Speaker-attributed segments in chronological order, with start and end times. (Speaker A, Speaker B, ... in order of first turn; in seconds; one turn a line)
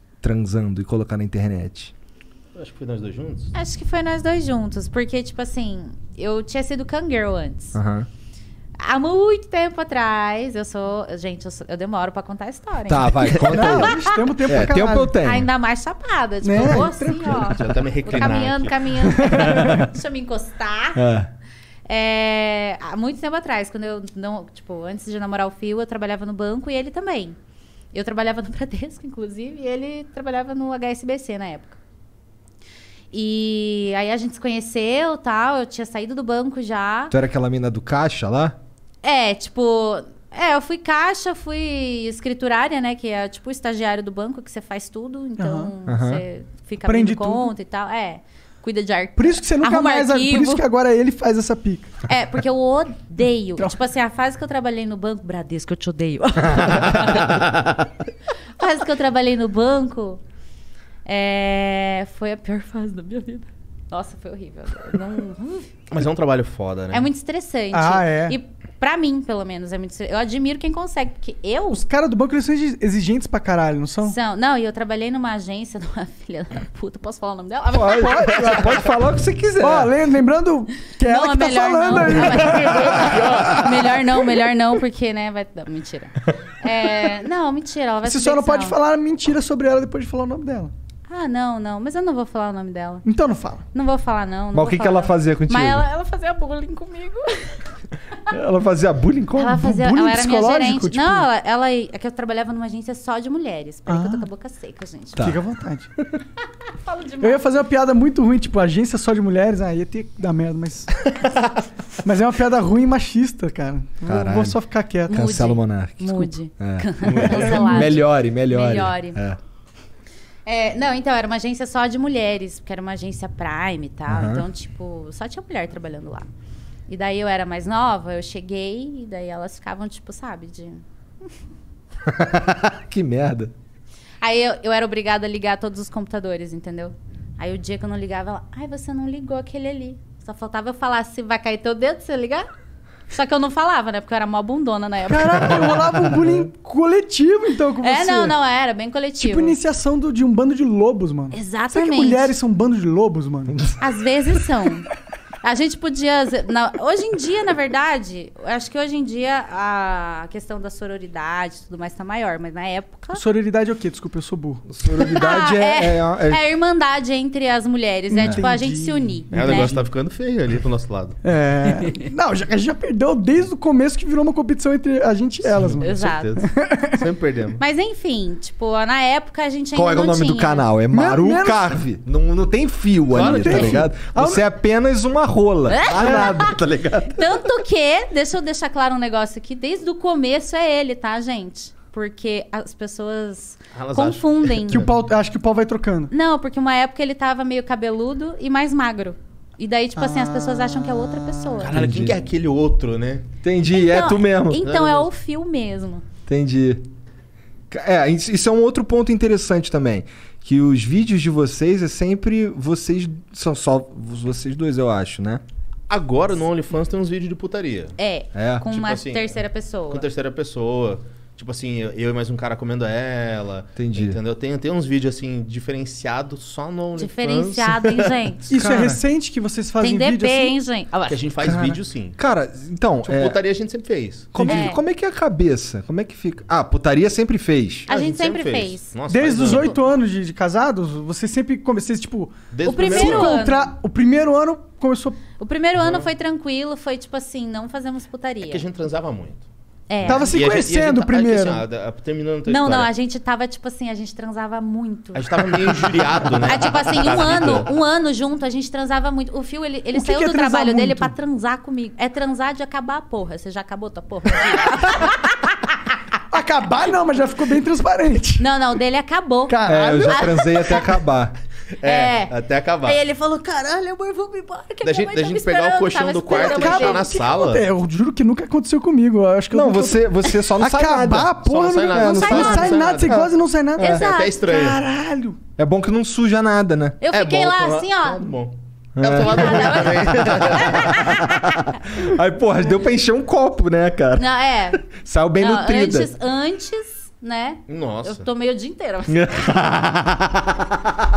Speaker A: 0.2-1.9
Speaker B: 2.5-3.5
Speaker C: 3.5-7.8
Speaker A: 7.7-8.1
Speaker C: 8.8-14.2
Speaker A: 12.9-15.5
Speaker D: 13.5-15.2
Speaker C: 15.2-21.0
Speaker D: 16.4-17.5
Speaker B: 17.3-18.7
Speaker D: 19.2-19.7
Speaker A: 19.4-19.8
Speaker A: 20.9-21.3
Speaker C: 21.9-27.4
Speaker C: 27.9-31.8
Speaker C: 33.1-37.1
Speaker A: 37.1-38.6
Speaker C: 39.0-50.6
Speaker D: 45.4-45.7
Speaker A: 45.9-46.2
Speaker D: 46.8-47.5
Speaker D: 49.2-52.0
Speaker C: 52.1-57.4
Speaker C: 58.6-60.2
Speaker C: 61.0-65.7
Speaker B: 65.9-67.1
Speaker C: 66.9-71.8
Speaker D: 67.7-68.4
Speaker D: 71.7-74.2
Speaker C: 74.0-78.9
Speaker A: 77.7-79.9
Speaker D: 77.9-78.9
Speaker D: 79.6-83.9
Speaker C: 81.0-88.8
Speaker D: 88.0-90.7
Speaker C: 91.1-93.0
Speaker D: 93.0-93.6
Speaker C: 93.7-97.7
Speaker A: 94.5-95.8
Speaker A: 98.3-99.7
Speaker C: 99.3-105.3
Speaker D: 99.5-101.3
Speaker D: 103.9-104.3
Speaker A: 105.2-105.4
Speaker D: 105.2-105.9
Speaker C: 106.8-107.5
Speaker D: 107.2-111.1
Speaker D: 112.0-115.2
Speaker A: 114.0-119.4
Speaker C: 115.1-119.2
Speaker D: 117.2-117.9
Speaker C: 120.5-126.3
Speaker A: 124.1-124.5
Speaker C: 126.9-130.8
Speaker A: 132.1-133.5
Speaker C: 134.2-142.4
Speaker C: 143.1-146.0
Speaker D: 145.1-148.3
Speaker C: 147.8-149.6
Speaker D: 149.2-153.6
Speaker C: 151.3-152.3
Speaker C: 153.8-154.9
Speaker C: 155.4-163.2
Speaker D: 163.1-164.6
Speaker A: 164.7-166.4
Speaker C: 164.9-169.8
Speaker D: 168.1-169.7
Speaker B: 169.3-171.2
Speaker D: 171.2-177.0
Speaker C: 171.8-172.1
Speaker B: 175.5-177.6
Speaker C: 175.8-176.4
Speaker C: 177.6-180.7
Speaker A: 179.7-187.2
Speaker D: 180.9-181.8
Speaker B: 183.1-183.9
Speaker D: 183.1-184.4
Speaker C: 185.7-194.8
Speaker B: 193.7-195.0
Speaker D: 194.7-196.1
Speaker C: 196.1-201.8
Speaker B: 201.6-203.2
Speaker A: 201.7-202.2
Speaker A: 203.4-204.7
Speaker C: 203.7-206.0
Speaker B: 204.6-205.1
Speaker A: 206.3-206.8
Speaker A: 207.7-215.4
Speaker B: 215.9-217.9
Speaker C: 218.0-220.1
Speaker A: 218.3-218.7
Speaker B: 218.6-228.1
Speaker A: 223.8-224.2
Speaker C: 226.9-228.5
Speaker D: 228.5-230.5
Speaker A: 228.5-229.0
Speaker C: 229.8-231.2
Speaker B: 231.1-232.2
Speaker A: 231.4-233.4
Speaker B: 233.0-234.3
Speaker A: 234.3-237.9
Speaker D: 234.3-234.8
Speaker C: 234.4-234.8
Speaker B: 237.9-239.8
Speaker C: 237.9-238.9
Speaker D: 239.1-245.2
Speaker C: 239.4-239.7
Speaker B: 242.5-243.4
Speaker C: 242.6-243.7
Speaker C: 245.4-248.7
Speaker B: 245.8-246.1
Speaker B: 248.4-249.4
Speaker C: 249.9-250.4
Speaker B: 250.0-252.9
Speaker D: 250.0-251.6
Speaker C: 252.4-265.6
Speaker B: 255.1-257.7
Speaker D: 259.9-261.1
Speaker D: 266.3-268.5
Speaker C: 268.4-271.0
Speaker D: 269.5-270.8
Speaker A: 269.6-271.3
Speaker B: 271.8-273.0
Speaker C: 271.8-277.1
Speaker B: 274.8-277.6
Speaker D: 276.3-285.4
Speaker A: 279.5-281.3
Speaker B: 281.4-283.3
Speaker A: 281.9-283.3
Speaker C: 282.0-282.9
Speaker C: 283.8-284.5
Speaker B: 283.8-284.8
Speaker A: 285.6-287.0
Speaker C: 287.0-288.2
Speaker B: 287.1-291.0
Speaker A: 288.9-296.1
Speaker C: 289.1-291.5
Speaker C: 294.1-294.9
Speaker C: 295.4-299.4
Speaker B: 297.7-298.3
Speaker A: 299.1-300.9